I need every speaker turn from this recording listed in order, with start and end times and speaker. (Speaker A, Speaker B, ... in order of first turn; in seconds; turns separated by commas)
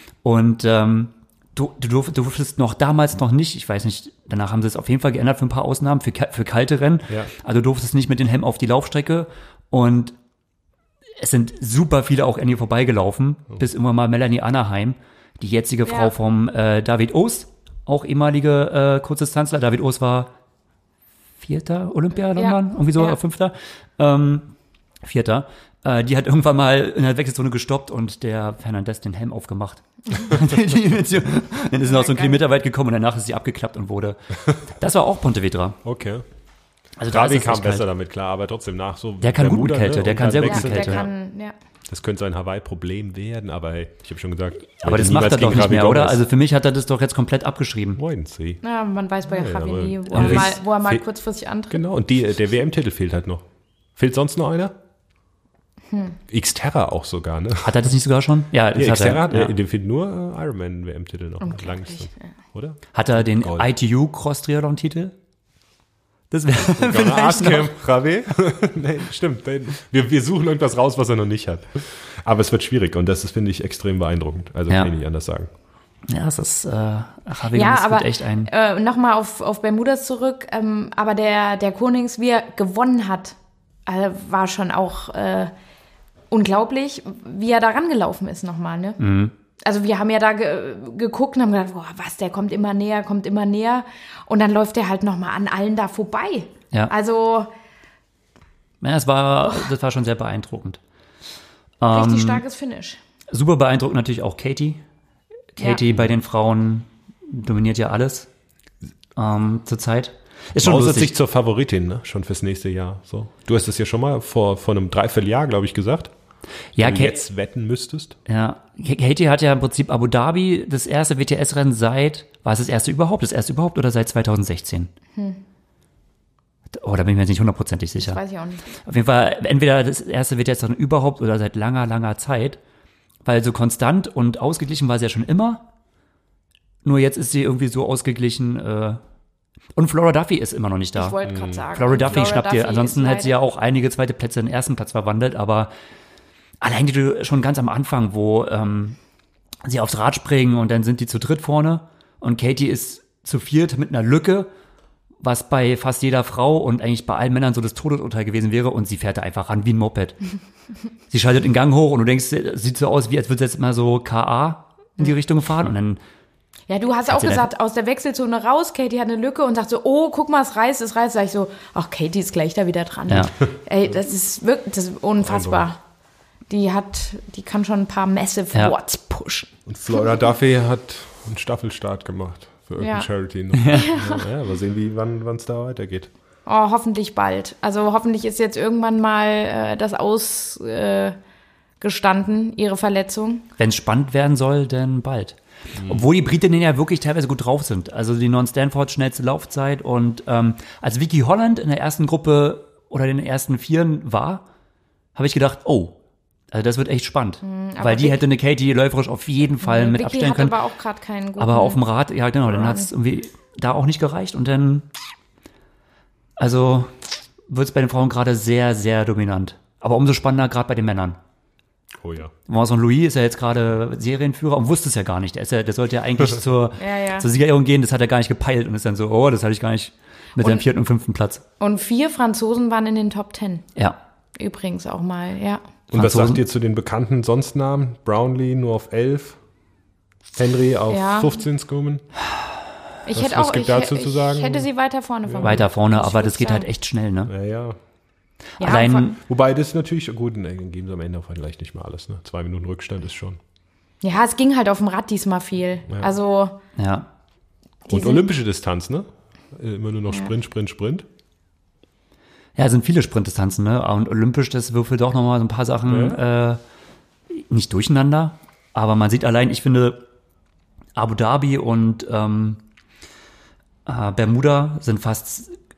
Speaker A: 0.2-10.2, Speaker A: 11.2-20.3, Speaker B: 15.9-16.1, Speaker A: 21.4-35.8, Speaker B: 22.4-23.2, Speaker B: 31.9-32.4, Speaker C: 35.8-36.2, Speaker A: 37.0-37.9, Speaker C: 37.1-41.1, Speaker A: 39.2-41.0, Speaker B: 40.4-41.5, Speaker C: 41.9-46.2, Speaker A: 44.8-48.0, Speaker C: 48.0-48.6, Speaker B: 48.6-51.8, Speaker C: 49.3-51.0, Speaker A: 50.1-50.5, Speaker C: 51.7-53.5, Speaker C: 54.0-54.8, Speaker B: 55.9-56.2, Speaker C: 56.3-57.8, Speaker A: 57.6-59.5, Speaker C: 58.8-63.7, Speaker B: 61.4-62.1, Speaker A: 62.9-65.2, Speaker A: 66.3-67.8, Speaker C: 66.6-75.5, Speaker A: 76.1-78.5, Speaker B: 77.5-85.5, Speaker B: 86.3-89.0, Speaker A: 89.0-89.3, Speaker B: 89.6-97.5, Speaker A: 98.8-100.8, Speaker A: 101.8-102.4, Speaker B: 101.9-103.0, Speaker A: 103.3-104.8, Speaker A: 105.5-108.3, Speaker A: 109.2-111.2, Speaker C: 110.6-116.1, Speaker A: 116.8-117.2, Speaker C: 116.8-118.2, Speaker A: 118.3-124.9, Speaker A: 126.7-128.2, Speaker B: 128.0-128.6, Speaker A: 128.8-132.6, Speaker A: 133.2-135.7, Speaker A: 136.8-139.0, Speaker A: 139.8-141.2, Speaker B: 141.0-143.3, Speaker C: 141.2-141.7, Speaker A: 141.8-145.7, Speaker A: 146.6-149.0, Speaker A: 149.6-154.5, Speaker A: 155.2-160.2, Speaker A: 161.1-166.0, Speaker B: 166.7-175.8, Speaker A: 167.1-167.5, Speaker A: 173.1-173.3, Speaker C: 175.2-175.7, Speaker B: 176.5-179.5, Speaker C: 179.7-186.1, Speaker B: 182.8-183.1, Speaker A: 183.6-183.9, Speaker B: 183.7-184.3, Speaker B: 186.5-191.2, Speaker B: 191.8-193.5, Speaker A: 193.6-204.4, Speaker C: 195.8-196.1, Speaker A: 205.2-206.0, Speaker A: 206.5-210.6, Speaker B: 207.4-208.2, Speaker B: 209.6-211.8, Speaker A: 211.4-214.9, Speaker B: 212.5-212.9, Speaker A: 216.4-216.9, Speaker A: 217.5-221.2, Speaker C: 222.0-222.3, Speaker A: 222.5-231.4, Speaker B: 226.8-227.3, Speaker B: 230.4-230.7, Speaker B: 231.6-233.7, Speaker B: 234.4-235.6, Speaker C: 235.9-239.4, Speaker A: 235.9-236.4, Speaker C: 240.3-242.1, Speaker B: 240.9-241.4, Speaker B: 243.1-246.7, Speaker C: 243.1-244.7, Speaker C: 245.3-245.5, Speaker A: 245.4-247.3, Speaker C: 247.3-247.8, Speaker B: 248.6-249.1, Speaker A: 248.6-249.2, Speaker C: 249.3-253.4, Speaker B: 254.0-256.6, Speaker A: 256.8-257.1, Speaker B: 257.9-258.2, Speaker C: 257.9-261.1, Speaker A: 262.6-266.6, Speaker C: 265.9-266.2, Speaker A: 267.3-270.1, Speaker A: 271.0-272.6, Speaker A: 273.9-275.6